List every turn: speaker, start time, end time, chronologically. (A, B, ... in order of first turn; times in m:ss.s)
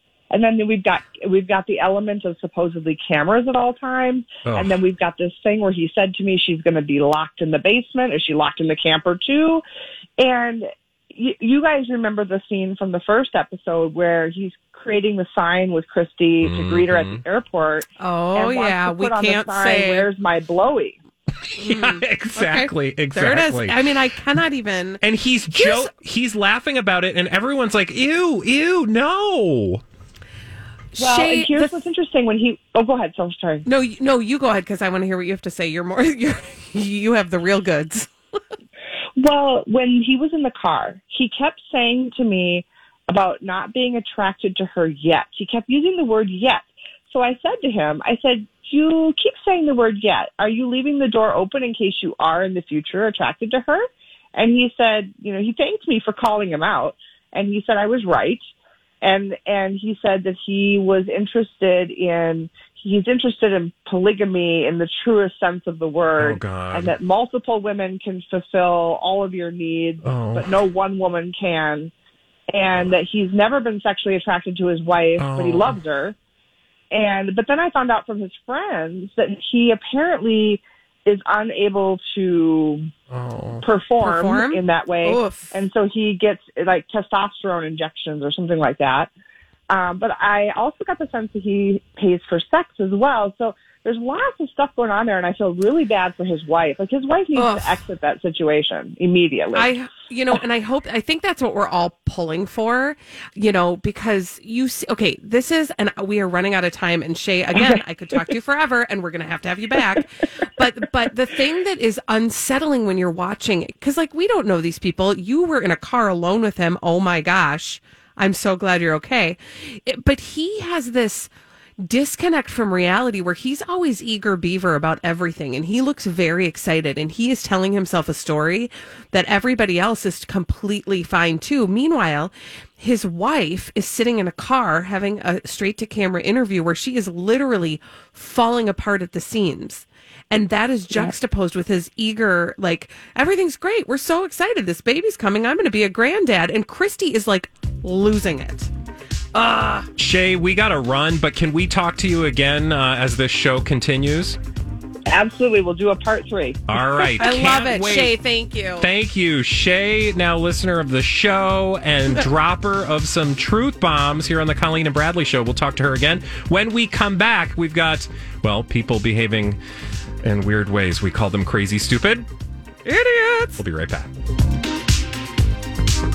0:00.3-0:09.6 A
0:04.4-0:04.8 B
0:10.2-0:21.0 A
0:16.4-0:17.2 B
0:18.0-0:20.1 C
0:21.4-0:23.9 B
0:21.6-0:25.0 C
0:25.0-0:29.8 B
0:25.5-0:25.9 C
0:30.9-0:31.7 C
0:31.0-0:33.6 A
0:33.6-0:38.1 C
0:39.2-0:58.4 A
0:59.0-1:11.9 A
1:06.2-1:07.0 B
1:10.0-1:10.6 B
1:12.5-1:16.1 A
1:15.2-1:15.8 B
1:16.9-1:22.9 A
1:23.1-1:23.6 B
1:23.6-1:29.1 A
1:24.0-1:25.5 C
1:29.7-1:39.7 A
1:37.3-1:37.8 C
1:39.5-2:28.7 C
2:29.3-2:29.9 C
2:30.0-2:34.4 B
2:35.1-2:37.6 A
2:36.7-2:38.2 B
2:37.0-2:38.9 C
2:38.8-2:49.6 B
2:50.2-2:52.3 B
2:52.8-2:53.6 C
2:53.6-2:54.1 B